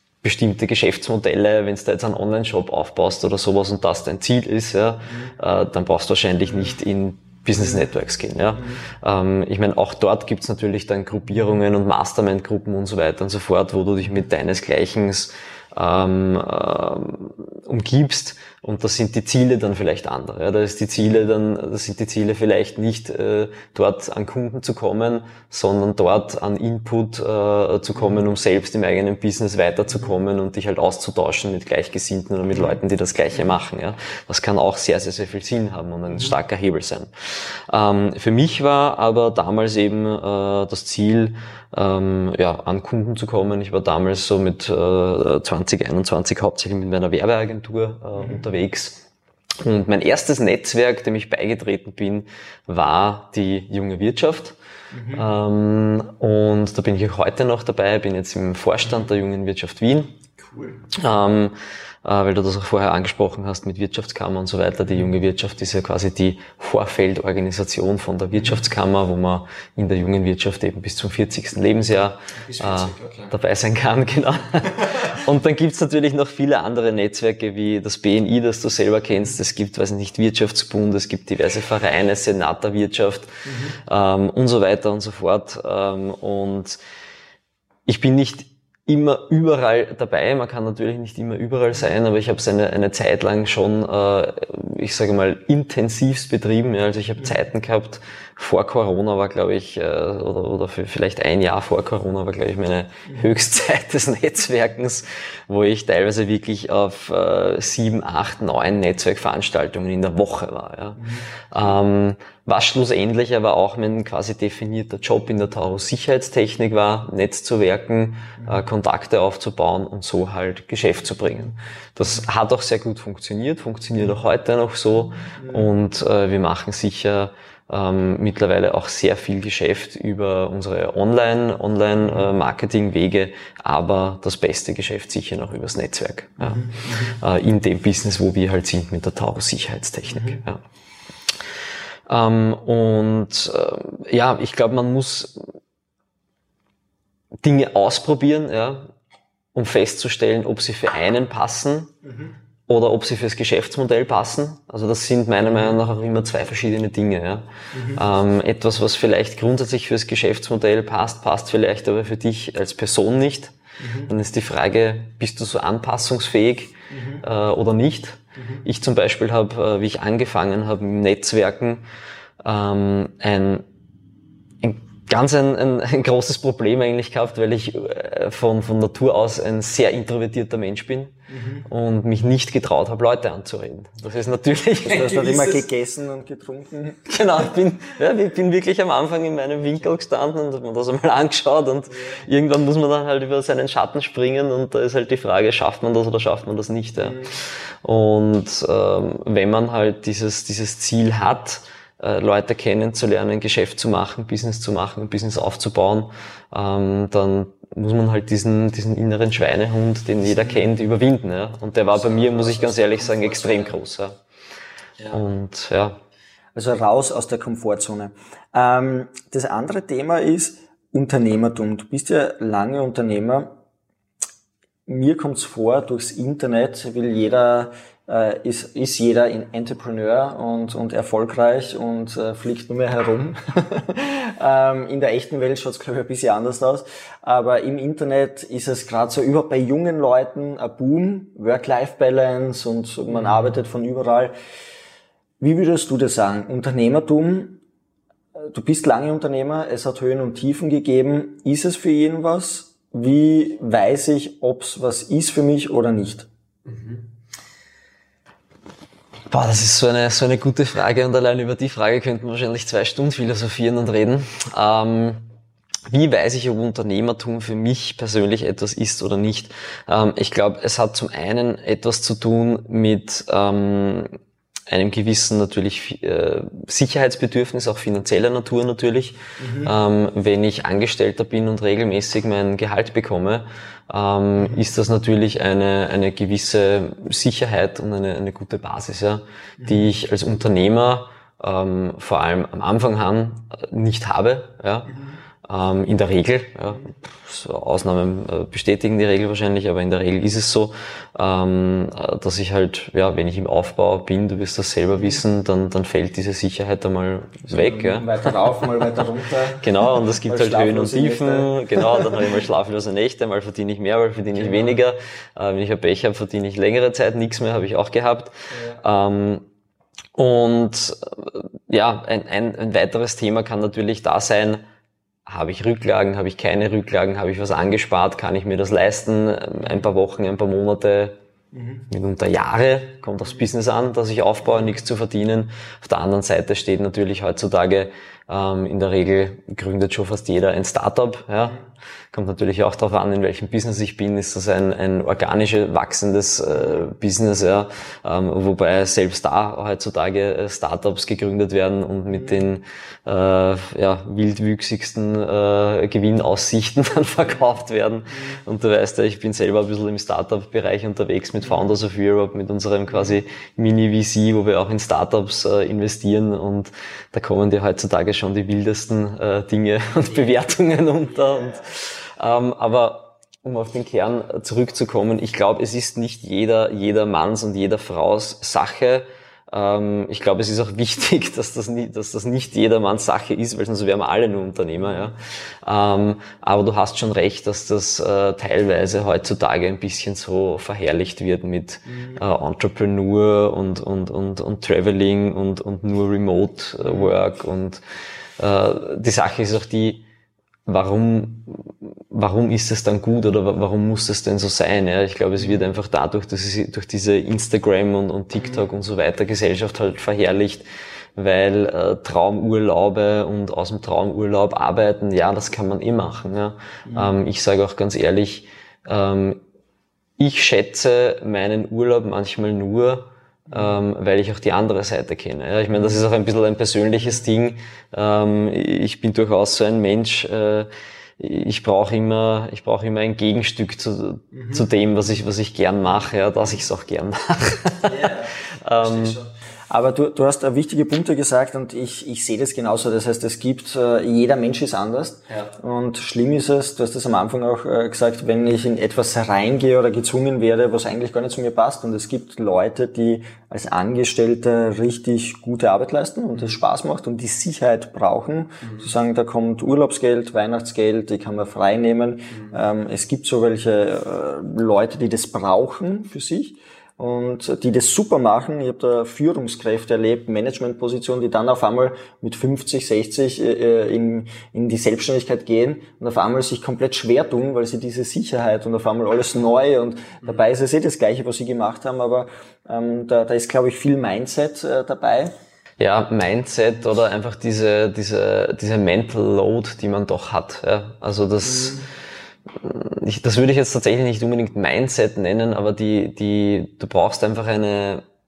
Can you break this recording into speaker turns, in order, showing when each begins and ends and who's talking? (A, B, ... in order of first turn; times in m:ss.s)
0:00.2-0:37.1 A
0:07.6-0:07.8 B
0:32.5-0:32.8 B
0:36.1-0:36.3 B
0:37.7-0:49.0 A
0:48.2-0:48.4 B
0:49.6-0:54.6 A
0:54.9-0:55.2 B
0:55.1-1:00.2 A
1:00.4-1:00.8 B
1:00.9-1:26.8 A
1:12.5-1:13.3 B
1:23.5-1:23.7 B
1:27.9-2:20.6 A
1:51.0-1:51.2 B
2:05.4-2:05.7 B
2:12.0-2:12.3 B
2:16.4-2:17.1 B
2:20.1-2:20.4 B
2:22.1-2:25.4 A
2:27.4-2:28.9 A
2:29.5-2:31.9 A
2:32.1-2:32.3 B
2:32.7-2:51.8 A
2:37.7-2:38.0 B
2:43.8-2:44.1 B
2:46.9-2:47.2 B
2:48.4-2:48.6 B
2:52.4-2:53.6 A
2:54.6-3:05.6 A
3:01.3-3:01.6 B
3:04.8-3:07.1 B
3:07.1-3:34.2 A
3:17.0-3:17.3 B
3:32.0-3:33.7 B
3:35.0-3:36.0 A
3:36.5-3:43.5 B
3:44.9-4:04.3 B
4:05.4-4:07.6 B
4:08.4-4:16.3 B
4:16.7-4:17.0 A
4:19.3-4:25.2 A
4:25.9-4:34.1 A
4:34.7-5:08.2 A
4:39.4-4:39.7 B
4:49.6-4:49.9 B
5:07.5-5:12.2 B
5:09.6-5:19.4 A
5:14.3-5:14.8 B
5:18.5-5:18.8 B
5:20.1-5:24.6 A
5:25.2-5:31.2 A
5:31.5-5:31.8 B
5:31.8-5:41.6 A
5:42.1-6:37.8 A
5:52.1-5:52.5 B
5:58.1-5:58.4 B
6:02.9-6:03.2 B
6:11.4-6:11.6 B
6:24.8-6:25.1 B
6:31.9-6:32.2 B
6:36.8-6:37.1 B
6:38.4-6:40.0 A
6:40.6-6:59.4 A
6:45.4-6:45.7 B
6:48.4-6:48.6 B
6:56.8-6:57.1 B
7:00.2-7:19.2 A
7:03.5-7:03.8 B
7:05.7-7:06.0 B
7:14.3-7:14.7 B
7:17.8-8:05.3 B
8:05.8-8:11.9 A
8:11.4-8:11.9 B
8:12.6-8:18.0 A